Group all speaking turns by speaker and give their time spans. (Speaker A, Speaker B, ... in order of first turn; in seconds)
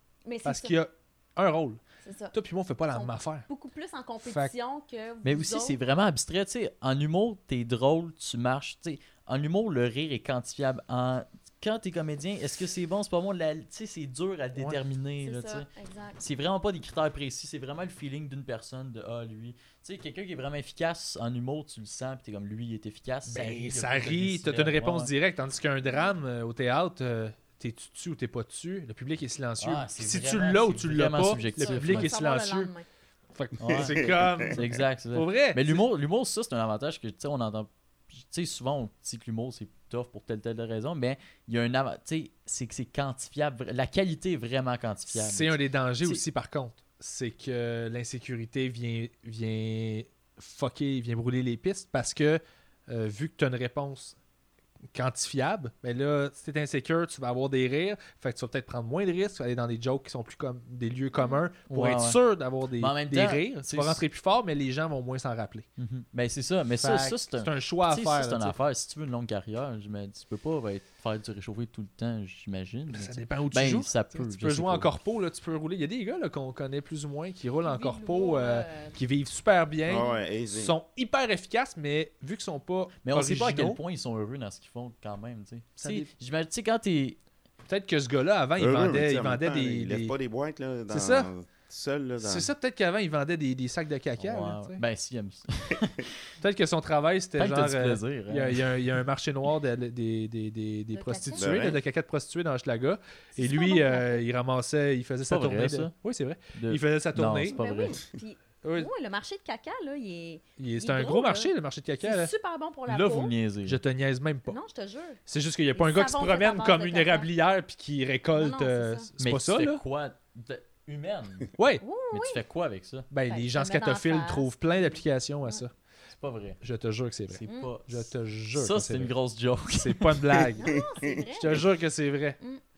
Speaker A: 0.2-0.8, 2.0-2.4, 2.9-5.8, 15.2-16.2, 31.6-32.9, 61.2-61.4, 77.6-79.0, 79.9-80.2, 100.9-101.5, 103.4-104.2, 107.5-113.3, 114.5-115.2, 115.7-117.3, 118.3-119.1, 121.8-122.4, 123.3-125.6, 127.5-127.7, 130.6-131.7
Speaker B: 0.4-1.8, 2.3-3.5, 4.2-4.5, 23.3-32.7, 33.4-35.9, 45.1-54.2, 54.9-65.7, 66.8-68.6, 72.9-83.8, 85.8-86.1, 87.7-90.2, 90.9-91.3, 92.2-94.8, 96.4-107.6, 108.6-108.9, 110.6-112.3, 113.7-114.6, 115.3-119.8, 121.6-121.8, 123.1-125.7, 126.6-129.1, 129.7-130.8, 131.3-132.4
Speaker C: 5.2-15.7, 16.2-25.1, 29.6-32.1, 33.6-46.2, 61.7-62.2, 62.8-64.0, 65.8-74.9, 83.0-87.2, 94.2-96.3, 97.4-98.9, 105.3-105.9, 106.5-108.0, 112.9-113.8, 119.2-121.5, 122.1-123.1, 126.2-126.6, 127.3-128.0, 128.5-130.3
Speaker D: 33.7-34.6, 79.9-80.8, 88.6-92.5, 101.4-101.8, 130.6-131.6